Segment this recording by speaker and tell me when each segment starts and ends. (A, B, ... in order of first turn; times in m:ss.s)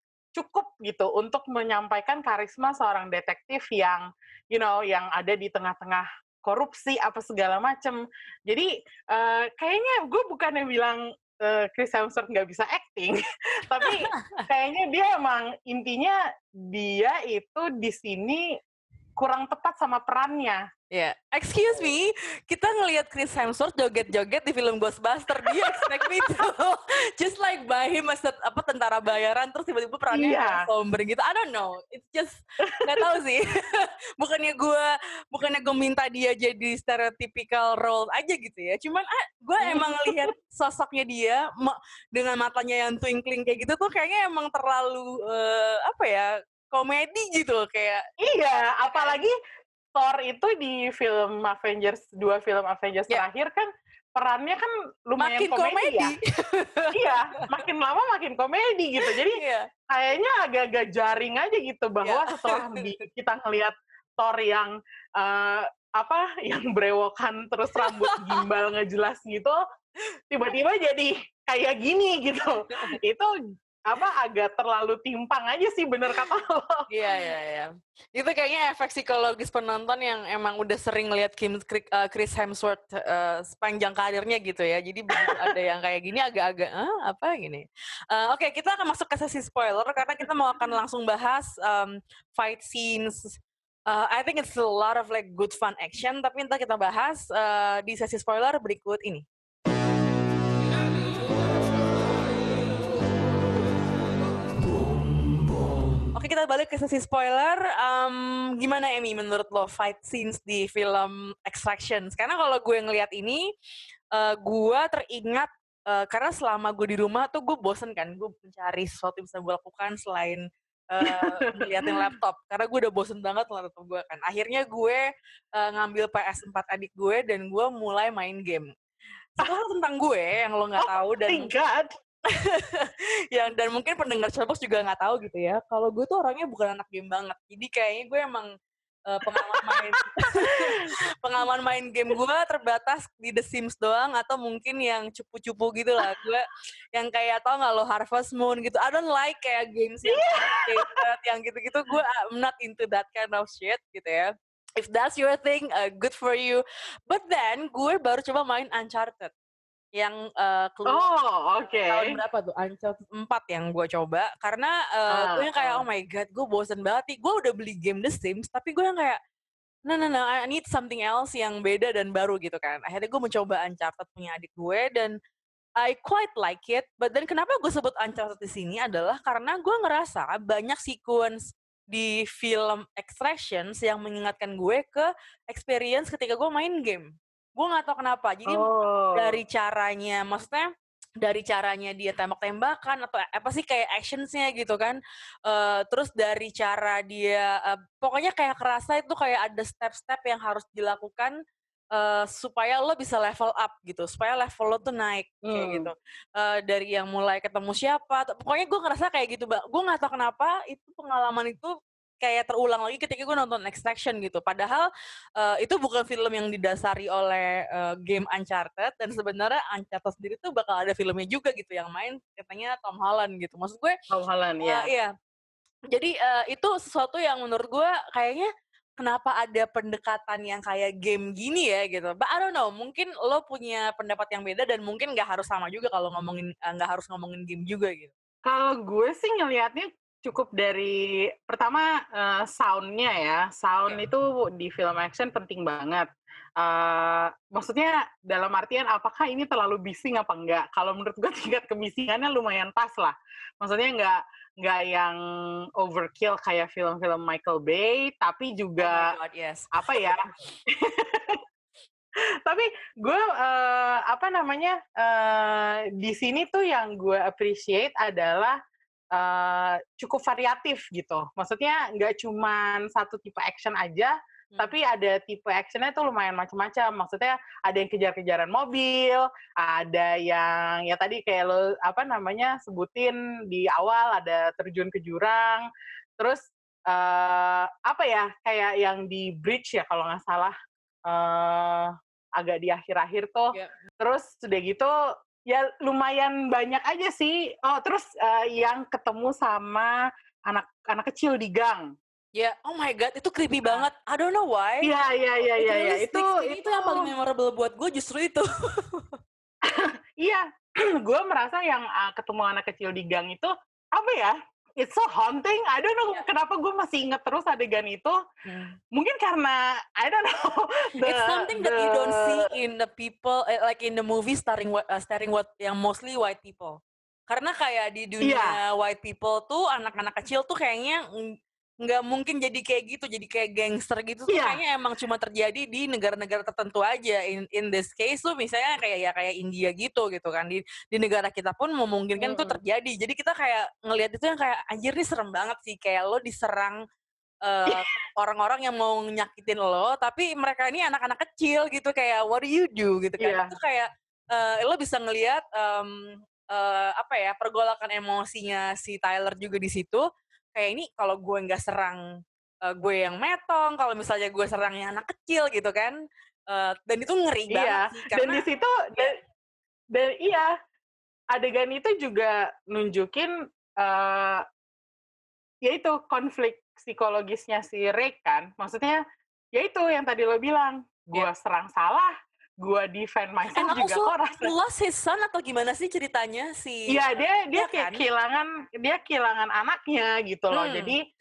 0:00.3-0:18.6 A
0:13.8-0:14.4 B
0:19.2-0:20.6 A
0:20.9-0:48.0 B
0:25.4-0:26.4 A
0:30.1-0:30.6 A
0:32.7-0:33.1 A
0:39.6-0:40.3 A
0:48.2-0:49.3 A
0:49.9-0:56.1 A
0:55.2-0:57.4 B
0:56.9-1:09.6 A
0:59.0-0:59.7 B
1:02.0-1:02.9 B
1:07.8-1:08.4 B
1:10.3-1:13.3 A
1:13.9-1:16.9 A
1:16.9-1:39.2 B
1:25.1-1:25.5 A
1:46.1-1:53.4 B
1:54.1-2:05.0 B
2:01.0-2:02.0 A
2:05.6-2:08.7 B
2:09.3-2:11.5 B
2:10.8-2:11.9 A
2:12.3-2:18.5 B
2:19.1-2:39.3 B
2:19.3-2:20.8 A
2:30.1-2:31.0 A
2:39.9-2:41.0 B
2:40.9-2:42.2 A
2:41.8-2:49.2 B
2:45.1-2:45.8 A
2:49.9-2:55.1 B
2:55.8-3:10.7 B
3:08.4-3:09.4 A
3:11.2-3:21.3 B
3:21.9-3:43.9 B
3:25.4-3:25.9 A
3:44.1-3:44.9 A
3:44.6-3:45.1 B
3:45.9-3:58.1 B
3:58.4-4:06.1 A
4:06.6-4:15.2 A
4:15.8-4:19.1 A
4:18.8-4:19.7 B
4:19.7-4:21.4 A
4:22.4-4:28.6 A
4:29.1-4:45.6 A
4:46.2-4:50.5 A
4:51.1-4:54.9 A
4:55.5-4:59.9 A
5:00.5-5:01.8 A
5:02.4-5:04.9 B
5:04.8-5:07.1 A
5:05.6-5:09.2 B
5:09.6-5:18.2 A
5:18.4-5:18.8 B
5:18.9-5:22.5 A
5:21.0-5:26.8 B
5:27.3-5:31.0 B
5:28.2-5:28.6 A
5:31.8-5:46.8 B
5:34.3-5:34.6 A
5:42.2-5:42.6 A
5:47.4-6:02.0 B
5:47.7-5:47.9 A
5:53.2-5:53.5 A
6:02.6-6:06.0 B
6:06.5-6:08.4 B
6:07.5-6:09.2 A
6:09.9-6:10.5 A
6:11.3-6:14.4 A
6:15.6-6:19.0 A
6:19.6-6:22.1 A
6:22.6-6:24.5 A
6:23.5-6:28.0 B
6:26.9-6:31.0 A
6:30.5-6:30.9 B